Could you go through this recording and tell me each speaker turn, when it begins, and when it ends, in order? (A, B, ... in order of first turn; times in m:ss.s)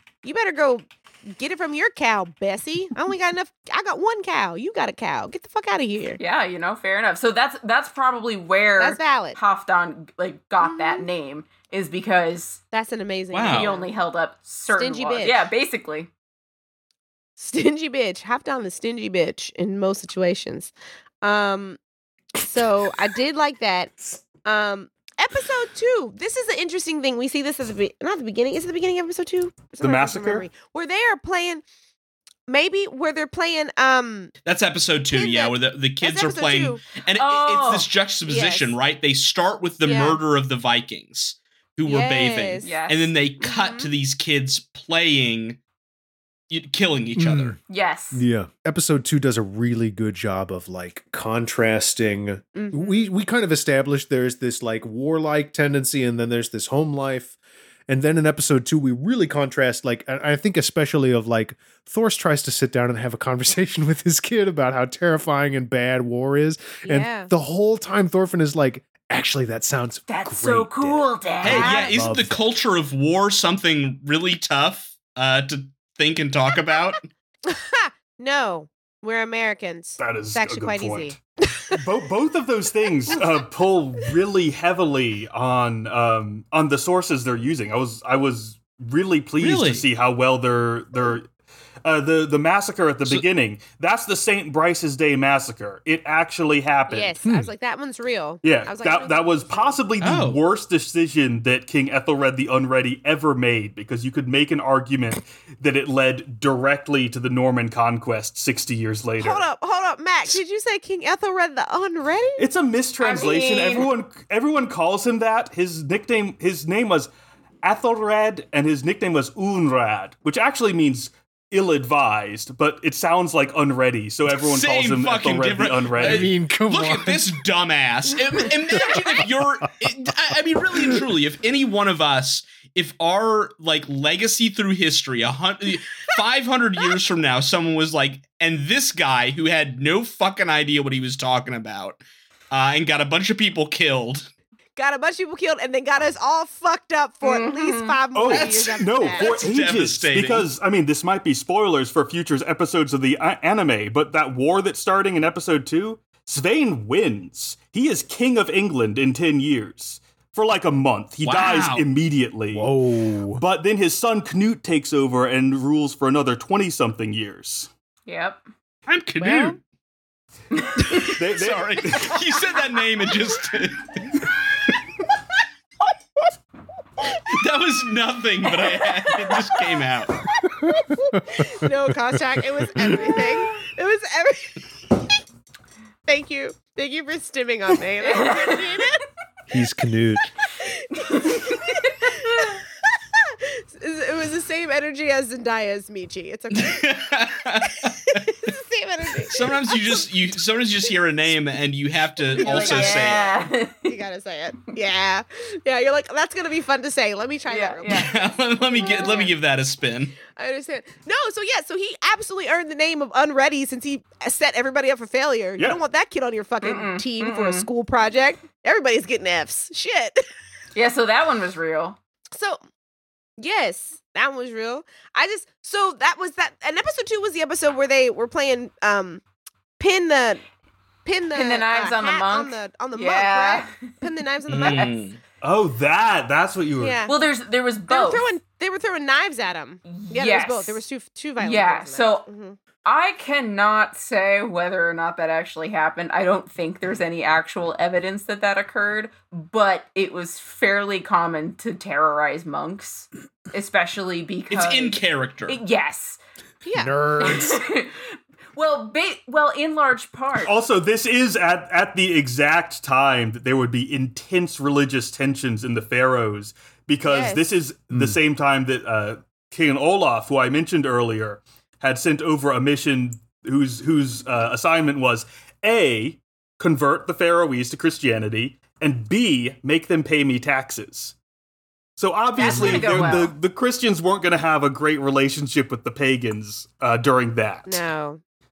0:00.2-0:06.2 A
0:06.2-0:12.6 B
0:08.8-0:09.4 A
0:10.6-0:11.1 A
0:12.7-0:13.9 A
0:13.3-0:13.7 C
0:13.5-0:16.1 B
0:14.7-0:15.4 A
0:17.4-0:20.7 A
0:21.2-0:21.8 A
0:22.4-0:31.6 A
0:29.8-0:30.4 D
0:32.5-0:34.3 A
0:34.4-0:45.6 C
0:35.1-0:36.8 A
0:37.1-0:37.9 B
0:38.3-0:38.7 A
0:39.8-0:40.2 A
0:41.8-0:42.7 A
0:42.6-0:43.1 B
0:43.4-0:43.9 A
0:46.5-0:47.6 C
0:47.2-0:47.6 E
0:47.7-0:48.2 B
0:48.1-0:57.3 E
0:52.5-0:53.1 A
0:57.9-1:12.4 E
1:06.8-1:07.3 A
1:10.1-1:11.9 B
1:11.4-1:17.0 C
1:11.5-1:11.9 A
1:17.4-1:21.8 A
1:20.0-1:21.2 D
1:21.7-1:31.3 D
1:23.1-1:23.3 A
1:29.4-1:29.8 C
1:31.8-1:37.2 D
1:36.9-1:39.9 A
1:37.2-1:37.5 E
1:38.4-1:49.4 D
1:40.0-1:40.4 C
1:49.2-1:52.5 A
1:52.4-1:57.1 D
1:53.0-1:53.9 B
1:57.6-2:06.3 D
2:04.4-2:24.3 C
2:06.0-2:07.4 E
2:08.7-2:09.6 E
2:10.7-2:11.0 E
2:24.8-2:29.4 A
2:27.2-2:28.0 B
2:28.1-2:42.7 D
2:28.3-2:30.5 C
2:41.2-2:41.8 C
2:42.5-2:43.4 E
2:43.3-2:47.7 D
2:48.1-2:48.4 B
2:48.9-2:49.6 C
2:49.2-2:49.6 A
2:50.6-2:51.0 B
2:51.1-2:54.0 C
2:51.2-2:52.2 D
2:57.3-3:00.2 C
3:00.6-3:03.0 E
3:00.8-3:04.6 A
3:06.1-3:09.0 A
3:08.0-3:08.6 B
3:09.5-3:10.3 E
3:10.6-3:16.9 A
3:11.0-3:12.6 B
3:16.5-3:18.4 C
3:18.1-3:20.1 A
3:19.2-3:23.3 C
3:22.3-3:23.3 A
3:22.4-3:24.0 B
3:23.8-3:29.3 A
3:27.5-3:28.1 B
3:27.9-3:30.2 C
3:28.9-3:29.3 B
3:30.3-3:40.2 A
3:36.6-3:37.7 B
3:40.7-3:42.0 B
3:42.3-3:42.6 A
3:43.4-3:49.2 A
3:49.8-3:50.4 A
3:51.0-3:54.9 A
3:51.3-3:53.8 B
3:54.5-3:55.2 C
3:54.6-3:55.0 B
3:55.4-3:57.0 D
3:56.8-3:57.1 A
3:57.0-3:58.3 B
3:57.9-4:02.6 A
3:59.8-4:00.8 B
4:01.4-4:02.2 B
4:02.8-4:16.2 B
4:14.5-4:15.6 C
4:16.6-4:17.0 A
4:16.7-4:17.6 E
4:17.2-4:20.5 B
4:20.4-4:41.1 D
4:27.0-4:27.5 A
4:27.9-4:28.2 E
4:42.0-4:47.8 D
4:42.3-4:43.3 B
4:42.4-4:42.8 A
4:47.6-4:48.2 A